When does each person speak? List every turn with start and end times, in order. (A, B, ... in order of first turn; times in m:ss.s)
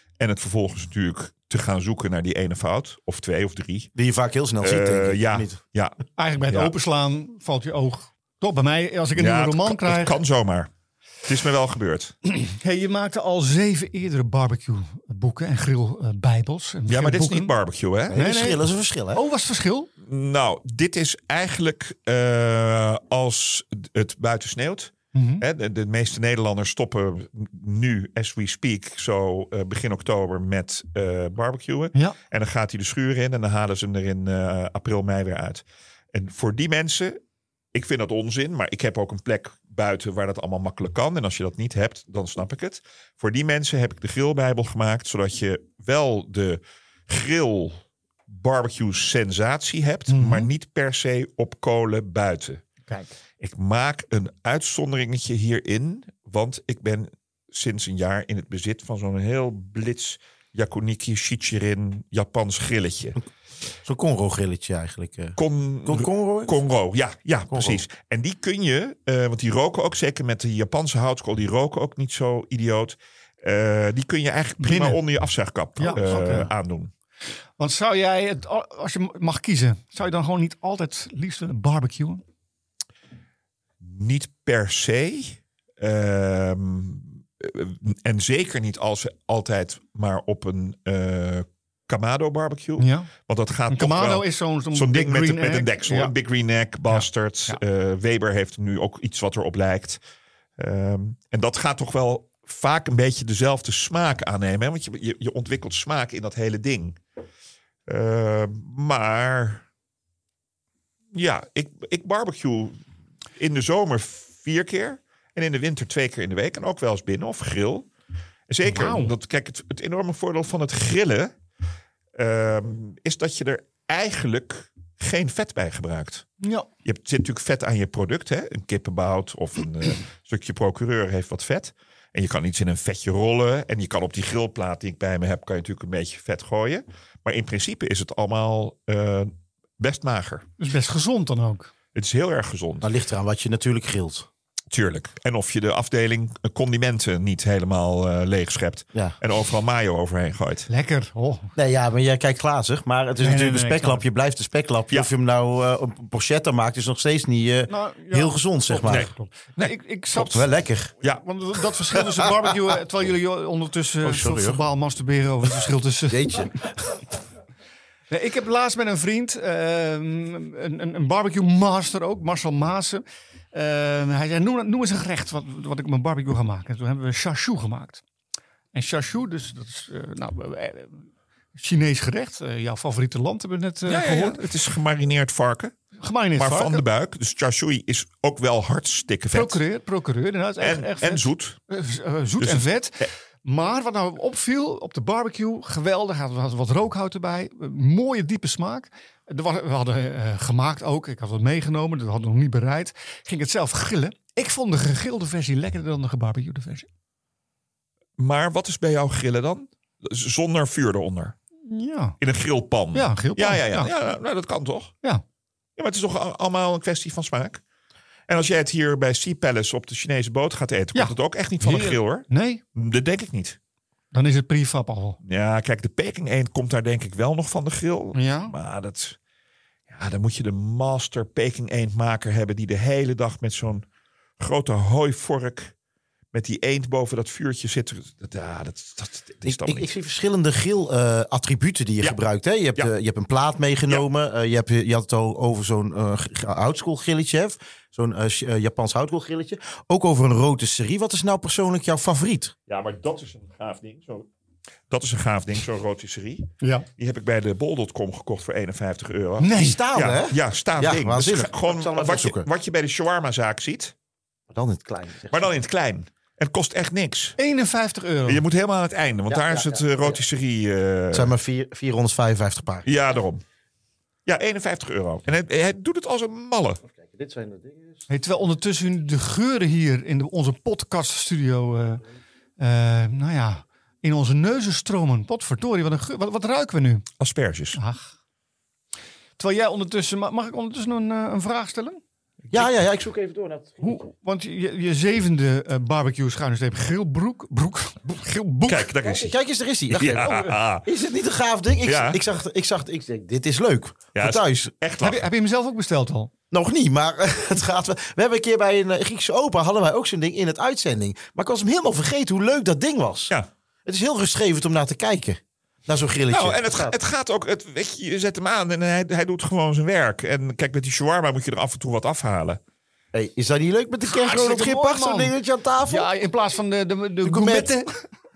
0:00.2-0:03.9 A
0:03.9-0:05.6 B
0:04.6-0:06.7 A
0:06.2-0:10.2 C
0:09.1-0:10.7 A
0:11.2-0:12.1 A
0:12.3-0:17.5 C
0:16.9-0:18.2 A
0:18.1-0:19.2 B
0:18.1-0:19.9 C
0:20.0-0:37.2 A
0:25.1-0:25.4 C
0:37.7-0:52.6 A
0:50.1-0:50.5 C
0:53.4-1:03.2 A
1:03.8-1:06.5 B
1:05.4-1:16.9 A
1:07.5-1:07.8 B
1:14.6-1:15.0 C
1:15.8-1:16.5 C
1:17.6-1:22.2 C
1:23.8-1:40.0 A
1:32.8-1:33.1 C
1:33.7-1:36.1 C
1:36.9-1:37.6 C
1:40.6-1:47.0 A
1:47.9-1:49.6 A
1:51.1-1:52.8 A
1:53.4-1:57.9 A
1:58.5-2:01.3 A
1:58.7-1:59.1 C
2:02.2-2:06.2 A
2:06.4-2:06.7 C
2:06.8-2:20.4 A
2:20.6-2:21.7 C
2:21.9-2:22.9 A
2:22.8-2:24.3 B
2:24.7-2:30.7 A
2:30.7-2:31.5 C
2:31.6-2:39.1 B
2:33.2-2:34.0 C
2:37.7-2:40.4 C
2:38.8-2:40.4 A
2:40.2-2:40.9 B
2:41.0-2:42.0 A
2:41.2-2:46.5 C
2:44.0-2:44.6 B
2:46.1-2:46.5 B
2:48.1-2:58.0 C
2:58.7-3:01.0 C
3:01.6-3:04.5 C
3:03.9-3:05.7 A
3:06.0-3:06.8 C
3:06.4-3:09.6 A
3:09.3-3:26.9 C
3:10.6-3:11.6 A
3:12.4-3:13.1 A
3:28.2-3:31.3 A
3:31.7-3:32.2 C
3:32.2-3:34.9 A
3:32.9-3:33.9 C
3:35.8-3:37.6 A
3:38.3-3:43.6 A
3:40.9-3:42.6 C
3:44.1-3:45.2 C
3:45.2-3:49.2 A
3:48.1-3:48.5 C
3:49.9-3:53.8 A
3:54.4-3:55.7 A
3:56.3-3:59.9 A
3:59.4-4:12.5 B
4:12.7-4:14.3 A
4:14.9-4:23.9 A
4:16.6-4:16.8 C
4:19.4-4:19.8 C
4:19.6-4:22.5 B
4:24.5-4:25.5 B
4:25.3-4:27.4 A
4:27.4-4:28.4 C
4:28.2-4:31.3 A
4:29.3-4:30.2 B
4:31.1-4:32.9 B
4:32.8-4:33.4 A
4:34.2-4:36.8 A
4:36.9-4:38.0 B
4:38.1-4:42.0 C
4:42.6-4:47.1 C
4:47.2-4:47.8 A
4:47.8-4:48.1 C
4:49.4-4:52.0 C
4:52.5-4:54.0 B
4:53.8-4:58.9 C
4:58.7-4:59.3 A
4:59.0-5:04.7 B
4:59.9-5:00.8 A
5:01.8-5:02.2 A
5:04.1-5:05.2 A
5:05.0-5:06.3 C
5:06.5-5:13.3 B
5:13.8-5:16.9 B
5:16.3-5:22.6 A
5:23.1-5:26.1 B
5:24.1-5:25.3 C
5:25.8-5:27.9 C
5:27.2-5:27.7 B